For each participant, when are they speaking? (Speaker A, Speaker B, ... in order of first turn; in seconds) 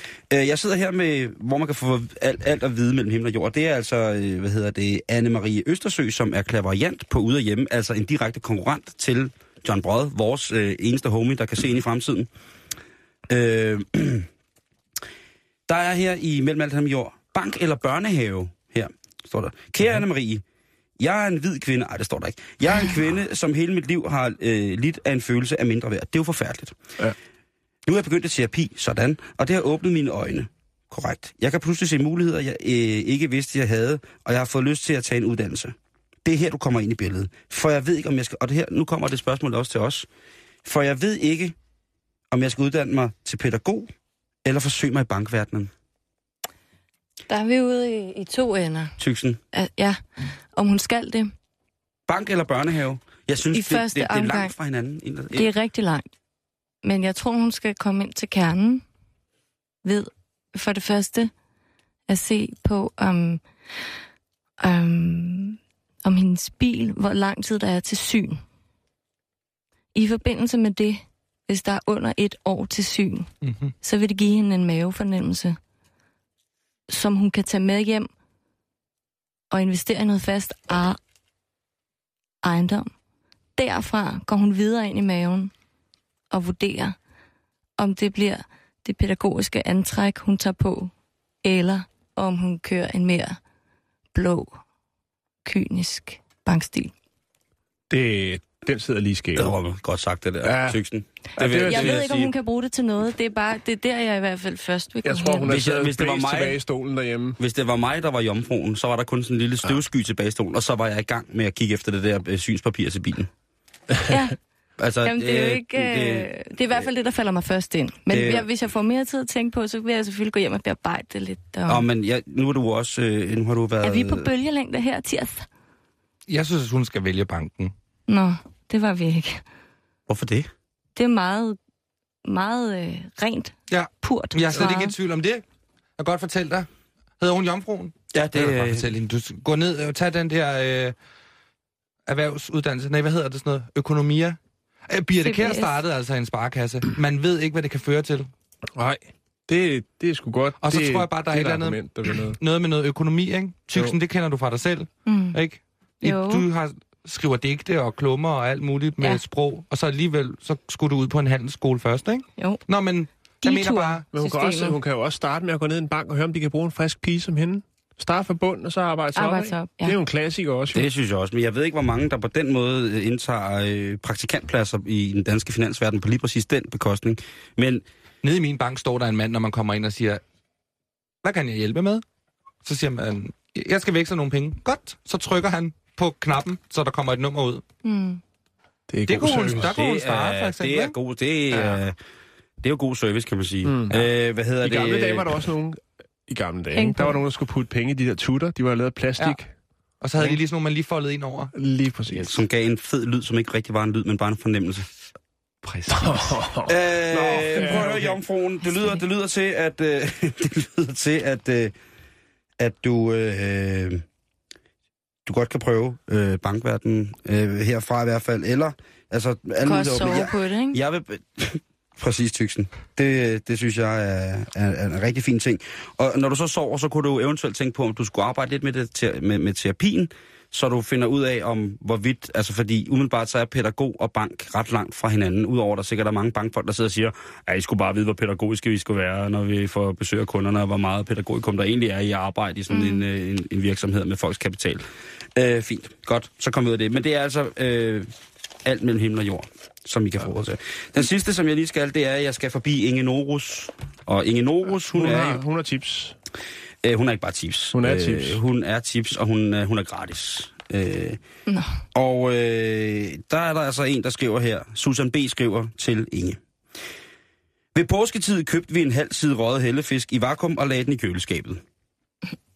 Speaker A: 0.3-12.3, 13.3-14.3, 15.7-20.4, 21.0-26.8, 27.9-40.1, 40.6-41.5, 42.3-43.9, 44.4-45.7, 49.0-49.4, 52.1-55.5, 99.3-102.3, 105.4-106.6, 107.4-113.3, 114.8-116.8, 118.1-118.5, 121.7-124.3, 130.1-130.5, 138.1-138.9, 170.7-177.8, 189.1-192.0, 192.6-195.4, 202.1-204.9, 206.7-211.7, 212.6-214.0, 215.2-244.8, 245.3-248.1, 248.6-255.4, 256.8-261.2, 261.9-266.4, 267.7-271.6
Speaker B: 47.3-49.0, 49.5-51.3, 53.5-54.5, 55.3-56.0, 56.8-58.8, 59.8-61.3, 62.1-63.4, 64.6-68.4, 69.9-73.3, 73.8-75.6, 76.9-78.1, 79.5-81.0, 82.4-82.9, 83.6-85.5, 86.3-87.0, 87.8-90.9, 91.4-93.4, 94.1-94.6, 95.4-96.9, 101.5-105.5, 114.1-114.4, 115.0-121.8, 123.8-125.5, 128.1-129.4, 130.9-131.6, 132.2-134.9, 145.2-145.7, 155.1-155.4, 156.0-156.4, 163.4-164.8, 169.1-170.0, 187.8-188.2, 196.7-197.2, 219.6-220.8, 242.7-243.0
Speaker C: 73.4-73.7, 126.3-127.7, 133.7-135.4, 136.0-136.7, 137.2-140.9, 142.1-148.3, 150.6-164.0, 178.2-180.2, 181.2-182.0, 182.6-187.6, 189.1-190.9, 200.0-201.5, 205.6-206.3
Speaker D: 97.9-99.5, 100.4-100.8, 101.4-102.0, 105.0-107.4, 148.8-152.4, 164.1-170.9, 188.9-189.7, 193.6-194.1, 194.6-199.5, 201.5-202.4, 205.9-208.2, 254.9-256.1, 257.7-258.4